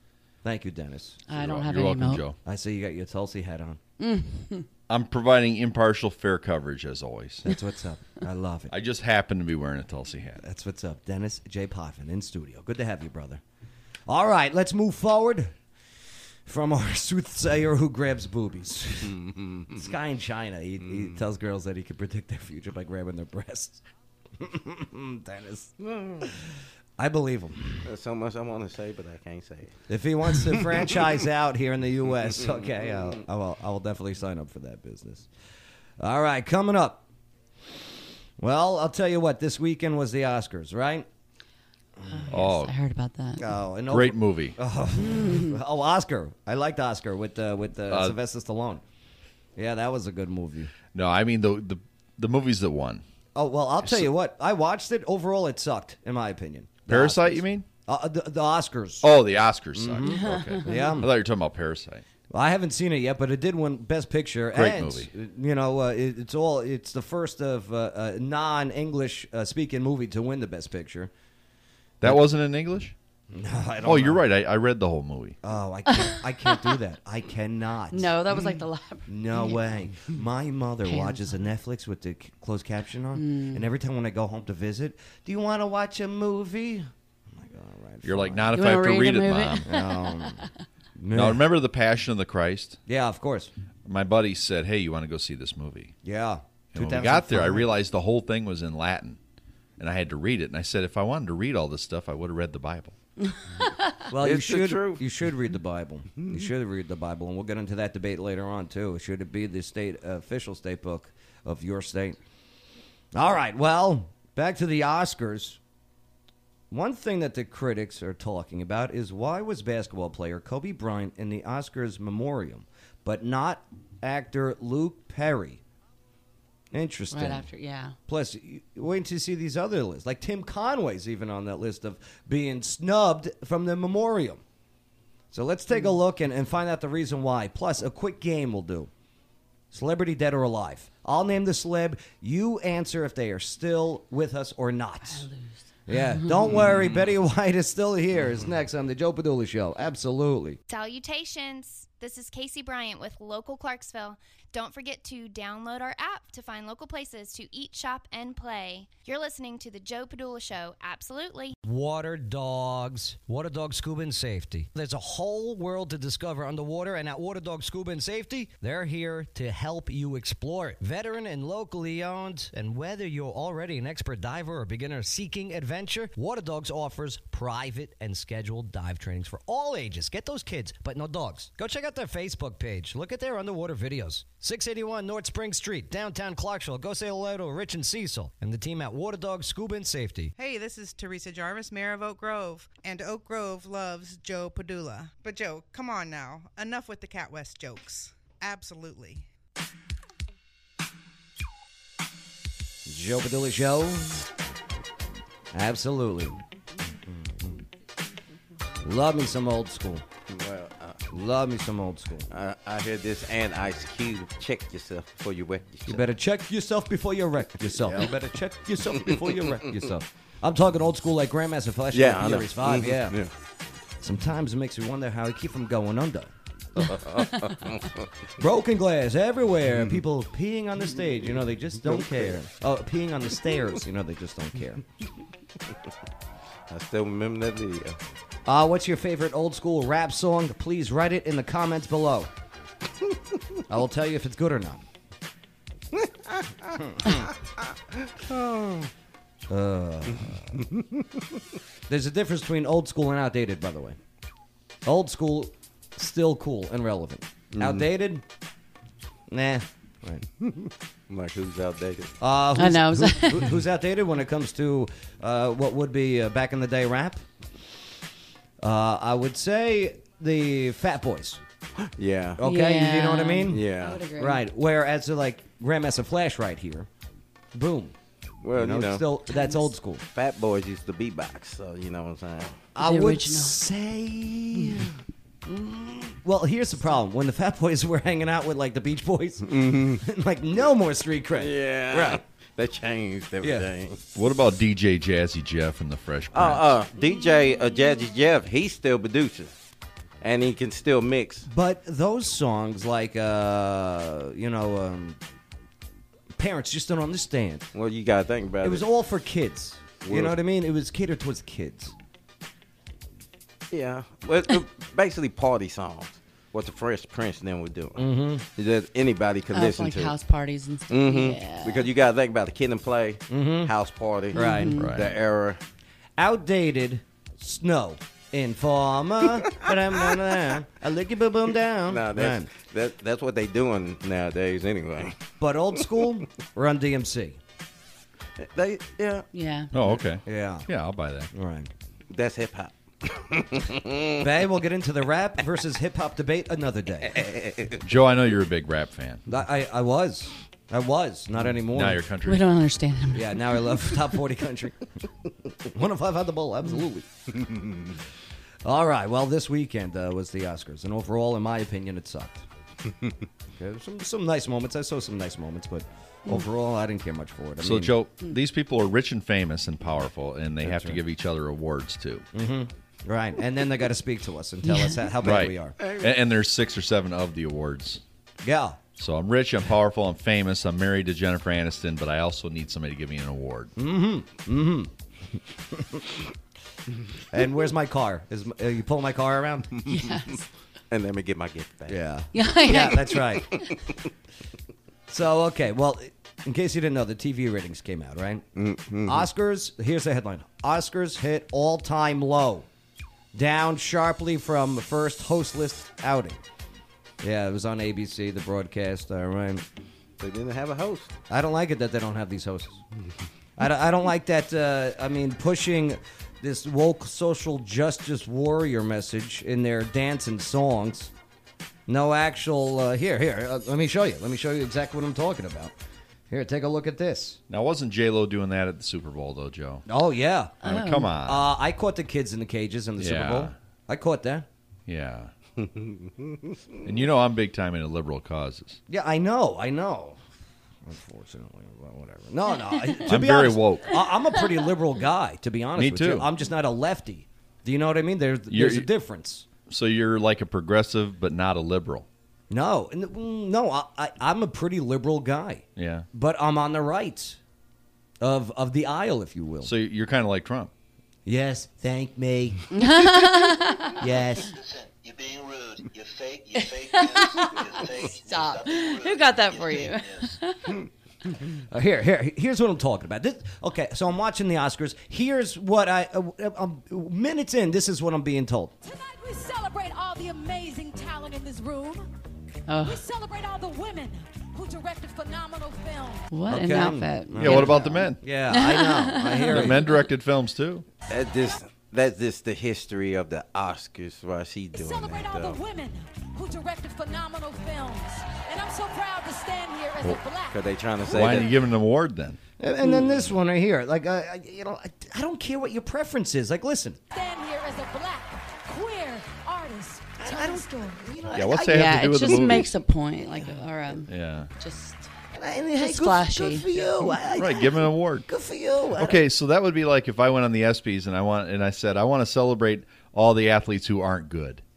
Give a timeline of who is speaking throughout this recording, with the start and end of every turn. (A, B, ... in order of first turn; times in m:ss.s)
0:00.4-0:01.2 A
0:01.3-0:02.2 B
0:01.3-0:02.4 C
0:02.4-0:03.8 A
0:04.0-0:04.7 B
0:04.9-0:07.4 C
0:07.4-0:08.7 A
0:08.7-0:10.4 C
0:10.4-0:13.4 A
0:14.1-0:15.5 A
0:16.5-0:19.2 A
0:19.2-0:19.6 D
0:19.7-0:23.8 A
0:24.4-0:26.3 A
0:25.8-0:26.3 D
0:27.0-0:27.9 A
0:27.8-0:29.8 D
0:29.9-0:35.3 A
0:36.0-0:37.0 A
0:38.4-0:41.1 A
0:42.1-0:43.5 B
0:42.3-0:42.7 C
0:43.4-0:48.8 A
0:43.9-0:44.6 C
0:45.0-0:45.6 B
0:47.9-0:48.2 C
0:49.6-0:50.7 A
0:50.9-0:53.0 C
0:53.4-0:59.2 A
0:56.9-0:57.7 C
0:59.0-1:02.0 C
0:59.8-1:01.2 A
1:00.0-1:00.9 B
1:02.3-1:11.1 A
1:04.5-1:05.1 C
1:12.0-1:13.0 C
1:13.3-1:14.2 A
1:13.8-1:15.4 C
1:15.4-1:18.3 A
1:17.9-1:19.6 B
1:19.1-1:28.6 A
1:20.8-1:21.4 B
1:23.2-1:23.7 B
1:28.0-1:29.7 C
1:28.5-1:30.5 B
1:29.6-1:31.5 A
1:31.1-1:32.8 C
1:32.9-1:33.5 A
1:33.8-1:35.9 C
1:36.0-1:37.7 A
1:36.7-1:39.2 C
1:39.8-1:43.0 C
1:43.6-1:43.9 B
1:44.1-1:52.2 A
1:44.2-1:45.0 D
1:53.1-1:55.6 A
1:56.7-2:05.6 A
2:06.7-2:07.5 A
2:07.1-2:08.0 B
2:08.1-2:14.4 A
2:15.3-2:18.9 A
2:19.7-2:25.3 A
2:25.0-2:26.5 B
2:25.9-2:30.6 A
2:30.7-2:41.6 E
2:41.6-3:10.3 A
3:10.4-3:19.3 F
3:22.9-3:24.3 A
3:25.5-3:26.4 A
3:27.1-3:27.5 A
3:28.8-3:30.1 A
3:30.3-3:31.0 D
3:31.1-3:32.3 A
3:32.3-3:36.0 D
3:35.9-3:43.2 A
3:41.9-3:43.3 D
3:44.0-3:46.3 A
3:46.8-3:48.1 D
3:48.4-3:54.8 A
3:52.0-3:52.3 D
3:56.7-3:58.0 D
3:58.5-4:02.3 A
4:03.7-4:04.8 A
4:06.0-4:06.7 D
4:06.8-4:07.3 A
4:08.2-4:08.9 D
4:09.5-4:10.6 A
4:11.9-4:14.0 A
4:14.8-4:18.2 A
4:17.5-4:17.9 D
4:19.3-4:20.2 A
4:20.5-4:22.1 D
4:22.2-4:27.2 A
4:22.6-4:23.6 B
4:28.6-4:31.4 A
4:31.8-4:32.4 D
4:32.4-4:36.9 A
4:32.4-4:34.4 B
4:33.5-4:34.0 D
4:37.5-4:38.0 A
4:38.4-4:39.0 D
4:38.5-4:40.0 A
4:39.3-4:39.7 B
4:40.1-4:42.6 D
4:42.8-4:45.0 A
4:42.8-4:43.6 B
4:45.5-4:52.2 A
4:49.5-4:50.0 D
4:51.4-4:54.0 D
4:53.4-4:53.7 A
4:54.2-4:56.7 C
4:56.3-4:59.5 D
5:00.2-5:01.5 D
5:01.5-5:05.2 A
5:06.4-5:07.7 A
5:07.7-5:08.8 D
5:08.6-5:11.9 A
5:10.0-5:10.4 D
5:13.7-5:20.2 D
5:18.0-5:18.4 A
5:19.5-5:21.9 B
5:20.9-5:25.6 D
5:23.3-5:23.7 A
5:24.3-5:24.8 A
5:24.3-5:24.9 B
5:24.8-5:25.2 C
5:26.2-5:32.5 A
5:31.9-5:35.2 D
5:35.4-5:37.4 A
5:38.4-5:39.2 D
5:39.3-5:39.7 B
5:39.7-5:41.3 C
5:40.2-5:40.7 A
5:41.3-5:41.7 A
5:42.1-5:44.2 D
5:44.2-5:47.3 A
5:47.2-5:47.8 D
5:47.8-5:49.2 C
5:49.3-5:52.0 A
5:51.7-5:52.5 C
5:52.3-5:54.1 B
5:53.1-5:54.9 A
5:55.4-5:57.1 A
5:58.6-6:02.5 A
6:03.5-6:07.9 A
6:07.6-6:12.3 C
6:10.6-6:11.0 A
6:12.3-6:15.8 A
6:14.6-6:15.0 B
6:15.2-6:18.0 C
6:15.8-6:16.1 D
6:18.4-6:18.8 A
6:19.0-6:23.7 C
6:23.8-6:26.2 A
6:27.3-6:29.8 A
6:29.8-6:30.5 B
6:30.9-6:32.0 D
6:31.9-6:33.6 A
6:32.3-6:33.7 B
6:33.6-6:34.0 D
6:35.1-6:38.5 A
6:38.6-6:39.3 D
6:39.0-6:42.7 A
6:43.3-6:46.4 A
6:47.2-6:49.6 A
6:50.2-6:51.2 D
6:51.3-6:52.8 A
6:53.6-7:01.1 A
7:01.9-7:05.8 A
7:06.3-7:07.4 A
7:07.5-7:09.8 C
7:09.9-7:10.6 A
7:10.6-7:11.1 B
7:10.6-7:11.5 C
7:11.2-7:14.5 A
7:13.0-7:13.6 C
7:14.9-7:15.3 C
7:15.6-7:15.9 D
7:16.8-7:18.8 C
7:18.9-7:20.2 A
7:20.8-7:29.5 A
7:23.0-7:23.9 C
7:25.8-7:26.3 C
7:28.5-7:28.9 C
7:29.7-7:32.1 C
7:32.5-7:37.4 A
7:35.8-7:36.1 C
7:38.2-7:39.7 A
7:39.6-7:40.7 C
7:41.3-7:42.6 A
7:42.7-7:44.0 B
7:44.0-7:44.5 A
7:44.4-7:50.4 G
7:46.6-7:50.8 B
7:51.7-7:58.7 A
7:58.8-8:02.1 H
8:02.7-8:03.0 B
8:02.8-8:06.3 H
8:06.3-8:09.9 B
8:06.5-8:09.9 A
8:07.4-8:08.2 C
8:09.5-8:10.9 C
8:11.1-8:15.6 D
8:14.7-8:21.6 H
8:20.5-8:21.5 D
8:21.1-8:22.4 C
8:22.6-8:27.0 A
8:27.1-8:31.0 H
8:30.2-8:32.7 A
8:31.3-8:32.7 C
8:31.7-8:35.1 B
8:33.4-8:34.0 A
8:34.1-8:34.5 C
8:35.3-8:39.2 A
8:35.8-8:37.2 B
8:37.4-8:38.3 C
8:39.0-8:44.6 C